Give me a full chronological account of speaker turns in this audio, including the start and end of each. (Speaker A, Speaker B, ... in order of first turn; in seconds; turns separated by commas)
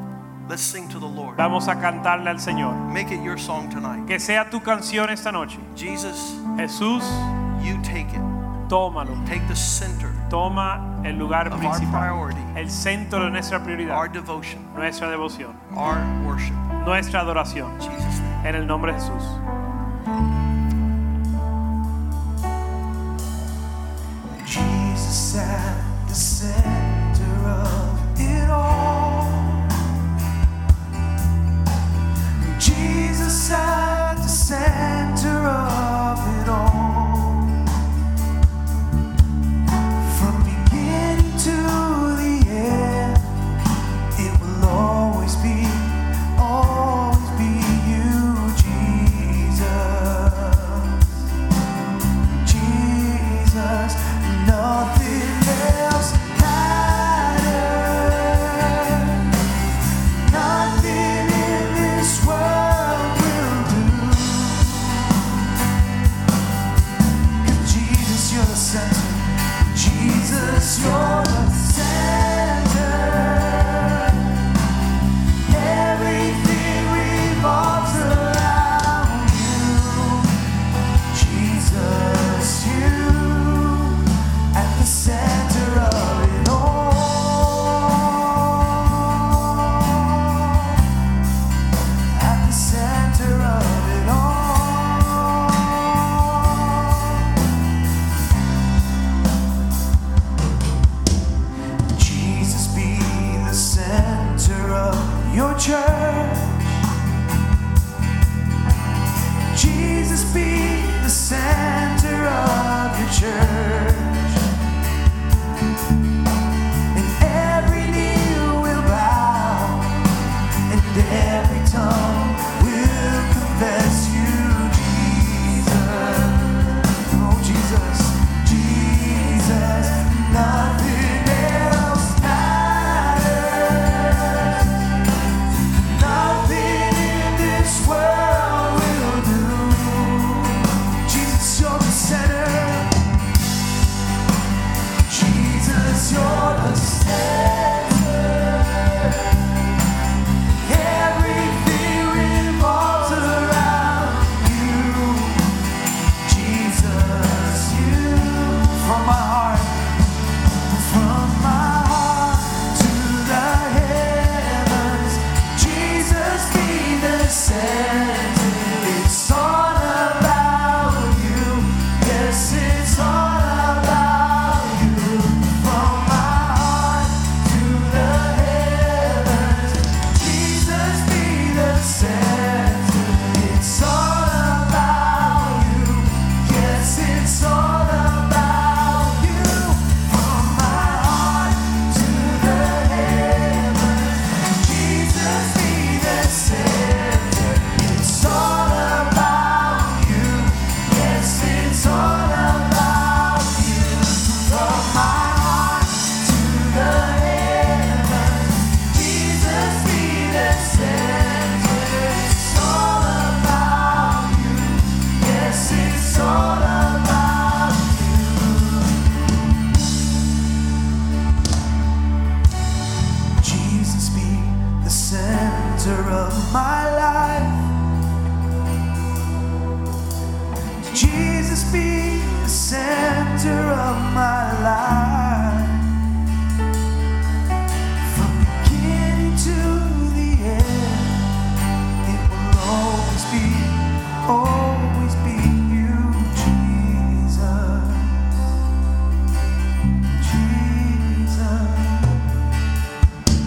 Speaker A: 0.5-1.4, Speaker B: 1.4-2.9, Speaker A: 2.9-4.1, Speaker B: 4.1-5.7, Speaker A: 5.7-6.4, Speaker B: 6.5-7.3, Speaker A: 7.5-8.3, Speaker B: 8.7-9.3, Speaker A: 9.2-10.2, Speaker B: 10.3-14.1, Speaker A: 11.5-12.5, Speaker A: 13.9-14.7, Speaker B: 14.7-15.6, Speaker A: 15.7-16.7, Speaker B: 16.8-17.8, Speaker A: 17.8-18.4, Speaker B: 18.4-19.4, Speaker C: 24.4-29.8, Speaker C: 32.4-37.7, Speaker C: 40.0-43.2, Speaker C: 44.1-51.1, Speaker C: 52.4-59.4, Speaker C: 60.2-65.2, Speaker C: 67.4-74.3, Speaker C: 75.5-80.3, Speaker C: 81.1-90.8, Speaker C: 92.1-97.3, Speaker C: 101.9-106.7, Speaker C: 109.5-114.5, Speaker C: 116.9-120.1, Speaker C: 120.7-134.9, Speaker C: 135.7-143.0, Speaker C: 145.1-149.4, Speaker C: 150.6-155.6, Speaker C: 156.2-160.1, Speaker C: 160.6-219.2, Speaker C: 223.4-227.7, Speaker C: 230.8-235.9, Speaker C: 238.0-241.3, Speaker C: 242.0-248.3, Speaker C: 250.2-252.2